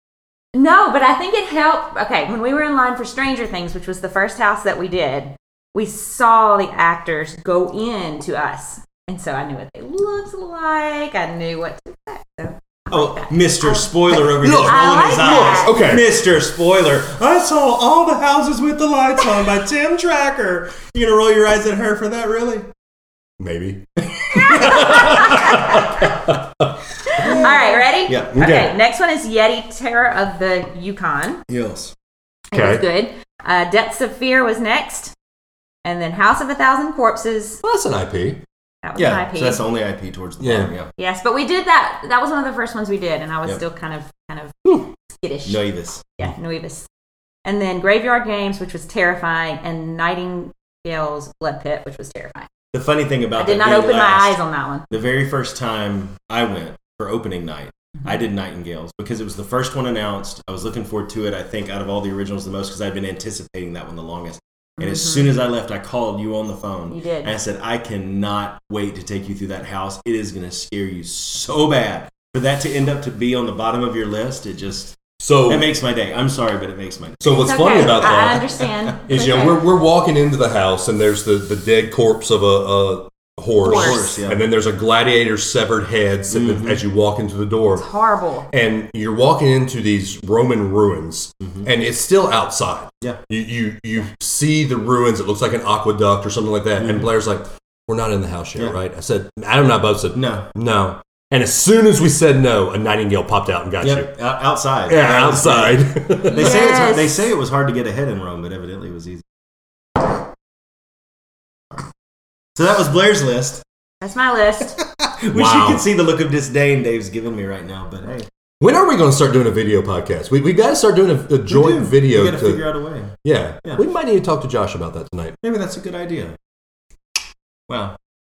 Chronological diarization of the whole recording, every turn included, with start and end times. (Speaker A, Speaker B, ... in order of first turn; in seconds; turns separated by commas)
Speaker A: 0.5-15.8, Speaker B: 12.9-22.7, Speaker C: 14.1-16.1, Speaker C: 23.4-27.4, Speaker B: 24.3-25.6, Speaker A: 24.4-26.0, Speaker A: 27.1-31.4, Speaker B: 27.2-28.4, Speaker C: 28.3-28.7, Speaker B: 31.5-31.9, Speaker A: 32.5-35.1, Speaker C: 32.5-32.9, Speaker A: 35.8-37.6, Speaker C: 37.6-38.4, Speaker A: 38.8-39.6, Speaker B: 39.0-40.9, Speaker C: 40.4-40.7, Speaker A: 41.0-44.6, Speaker A: 45.2-46.9, Speaker B: 45.5-46.1, Speaker A: 47.5-52.5, Speaker B: 52.7-78.3, Speaker A: 53.4-54.9, Speaker A: 64.8-65.3, Speaker A: 66.9-67.3, Speaker C: 75.2-75.7, Speaker C: 77.2-87.8, Speaker A: 77.3-79.6, Speaker A: 83.6-84.0, Speaker B: 83.6-84.4, Speaker B: 86.3-86.8, Speaker A: 87.7-88.5, Speaker C: 88.5-104.1, Speaker B: 91.4-91.7, Speaker B: 96.8-97.1, Speaker B: 100.1-100.5, Speaker B: 103.8-109.2, Speaker C: 104.9-106.6, Speaker A: 106.3-107.3, Speaker B: 112.5-113.6, Speaker A: 114.0-114.8, Speaker B: 115.0-118.3, Speaker C: 115.3-115.8, Speaker C: 118.6-122.6, Speaker B: 121.5-123.8, Speaker C: 123.2-125.4, Speaker B: 125.4-126.3, Speaker B: 127.7-128.0